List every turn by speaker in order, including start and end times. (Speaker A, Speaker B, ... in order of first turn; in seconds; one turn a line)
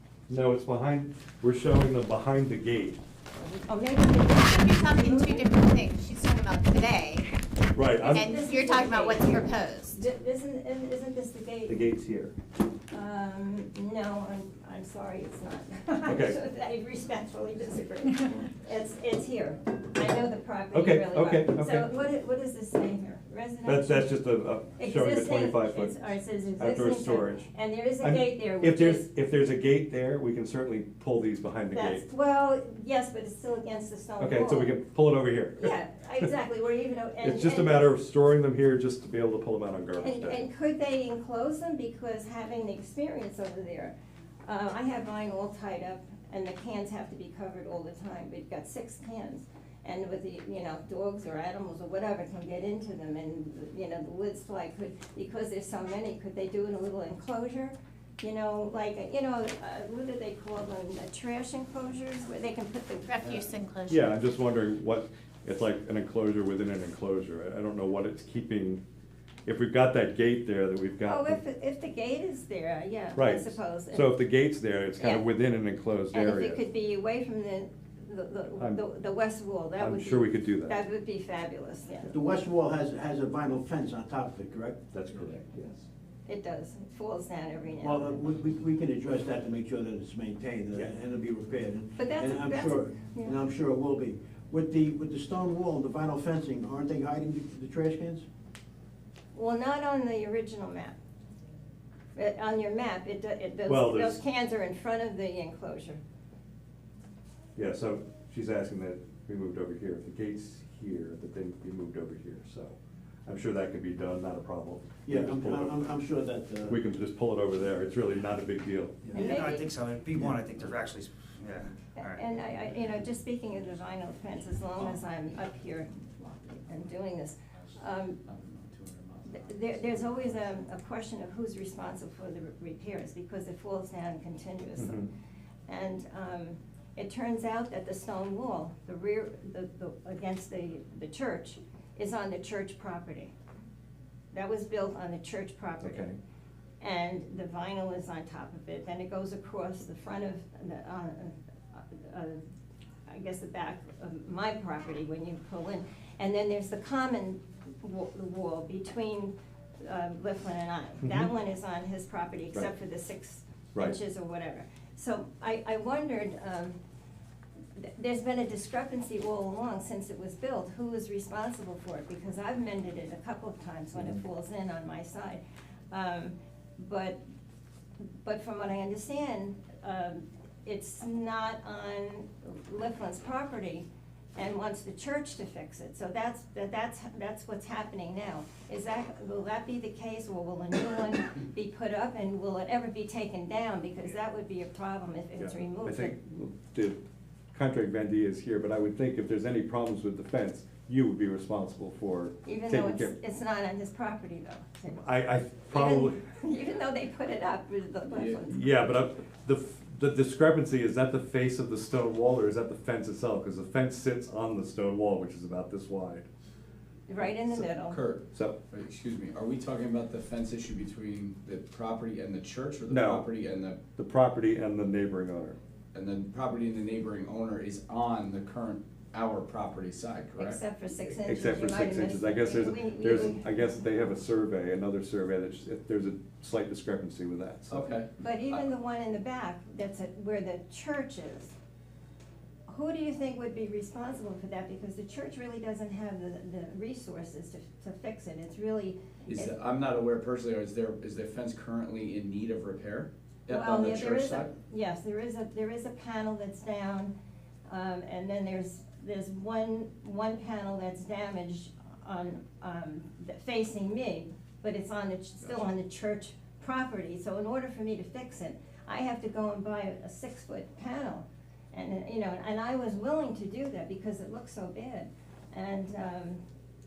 Speaker A: 0.3-3.0
Speaker B: 3.4-5.5
Speaker C: 4.3-7.3
Speaker A: 7.8-8.4
Speaker B: 8.0-11.8
Speaker C: 8.1-10.0
Speaker A: 11.7-12.3
Speaker B: 12.9-24.1
Speaker A: 16.1-16.4
Speaker A: 20.7-21.9
Speaker A: 23.6-27.5
Speaker B: 24.8-29.1
Speaker A: 28.0-32.0
Speaker B: 31.7-34.8
Speaker A: 34.2-36.3
Speaker B: 35.6-37.9
Speaker A: 37.2-40.5
Speaker B: 40.0-43.9
Speaker B: 44.5-63.5
Speaker C: 63.1-64.0
Speaker A: 63.9-68.8
Speaker A: 69.5-71.4
Speaker B: 71.0-74.2
Speaker A: 73.2-76.6
Speaker B: 75.0-75.2
Speaker B: 76.1-82.1
Speaker A: 79.8-80.8
Speaker D: 82.1-84.8
Speaker A: 84.9-85.9
Speaker B: 86.3-88.2
Speaker D: 87.8-98.2
Speaker B: 92.0-93.4
Speaker B: 99.3-101.0
Speaker B: 102.2-106.0
Speaker A: 103.7-104.2
Speaker A: 107.6-115.8
Speaker D: 115.1-116.8
Speaker A: 116.7-119.1
Speaker E: 119.1-122.3
Speaker B: 119.1-119.7
Speaker B: 122.0-128.2
Speaker F: 128.2-130.5
Speaker B: 129.3-135.0
Speaker A: 134.8-135.1
Speaker B: 135.7-143.3
Speaker B: 144.3-146.1
Speaker A: 145.8-146.2
Speaker B: 146.8-152.4
Speaker B: 153.1-166.8
Speaker B: 167.8-177.2
Speaker B: 178.2-196.1
Speaker A: 195.4-197.0
Speaker A: 197.5-203.1
Speaker B: 202.4-205.0
Speaker A: 204.9-206.2
Speaker B: 205.7-208.6
Speaker F: 208.1-208.4
Speaker A: 208.4-216.3
Speaker B: 217.1-218.0
Speaker F: 217.9-223.8
Speaker A: 222.9-223.3
Speaker A: 224.0-225.6
Speaker F: 225.9-230.6
Speaker B: 230.4-233.6
Speaker A: 231.1-237.9
Speaker F: 237.7-238.7
Speaker B: 238.2-241.5
Speaker B: 242.7-249.6
Speaker F: 249.3-254.5
Speaker B: 253.5-257.1
Speaker B: 257.7-276.4